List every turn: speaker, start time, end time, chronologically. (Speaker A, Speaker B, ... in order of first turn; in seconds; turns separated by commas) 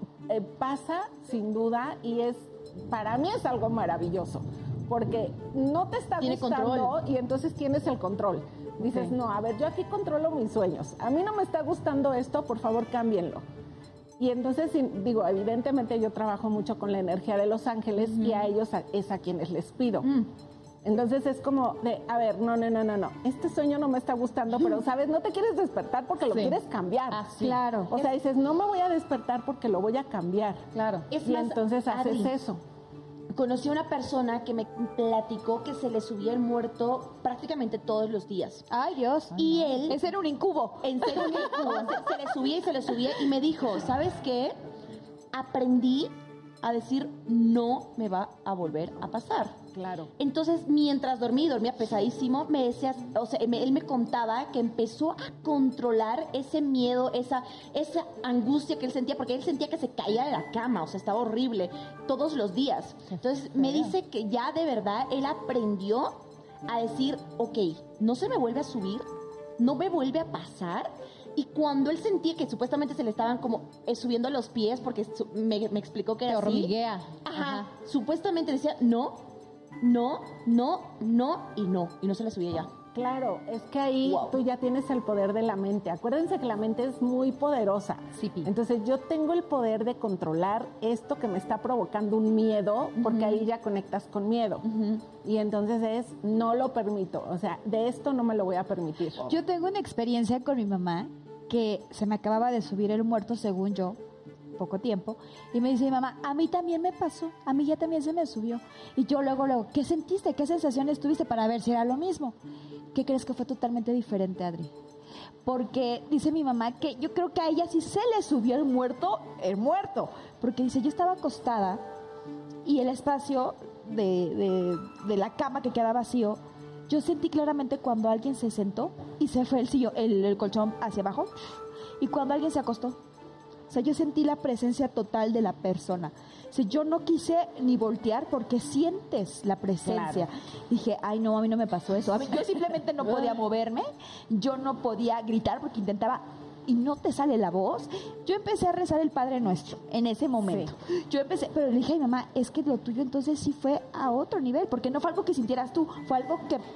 Speaker A: 0.3-13.4, Speaker B: 6.2-7.0, Speaker A: 14.2-20.1, Speaker A: 20.8-30.6, Speaker C: 26.3-26.6, Speaker C: 27.1-27.6, Speaker D: 27.4-27.9, Speaker C: 30.7-31.1, Speaker B: 31.1-32.4, Speaker A: 31.2-32.6, Speaker B: 33.3-38.7, Speaker D: 38.7-42.1, Speaker B: 39.3-40.0, Speaker B: 40.8-44.5, Speaker B: 45.3-46.1, Speaker B: 46.6-49.6, Speaker A: 49.7-50.1, Speaker B: 50.2-69.0, Speaker B: 69.6-76.7, Speaker C: 76.3-77.7, Speaker B: 77.3-79.2, Speaker B: 79.8-82.7, Speaker A: 82.9-94.6, Speaker B: 84.0-84.4, Speaker C: 88.2-88.5, Speaker B: 93.0-93.4, Speaker B: 94.7-95.0, Speaker A: 95.2-99.3, Speaker D: 99.2-104.0, Speaker D: 104.5-112.3, Speaker D: 112.9-114.7, Speaker D: 115.4-121.9, Speaker D: 122.6-131.3, Speaker D: 132.0-133.0, Speaker D: 133.7-156.6, Speaker A: 139.8-140.3, Speaker A: 150.4-150.7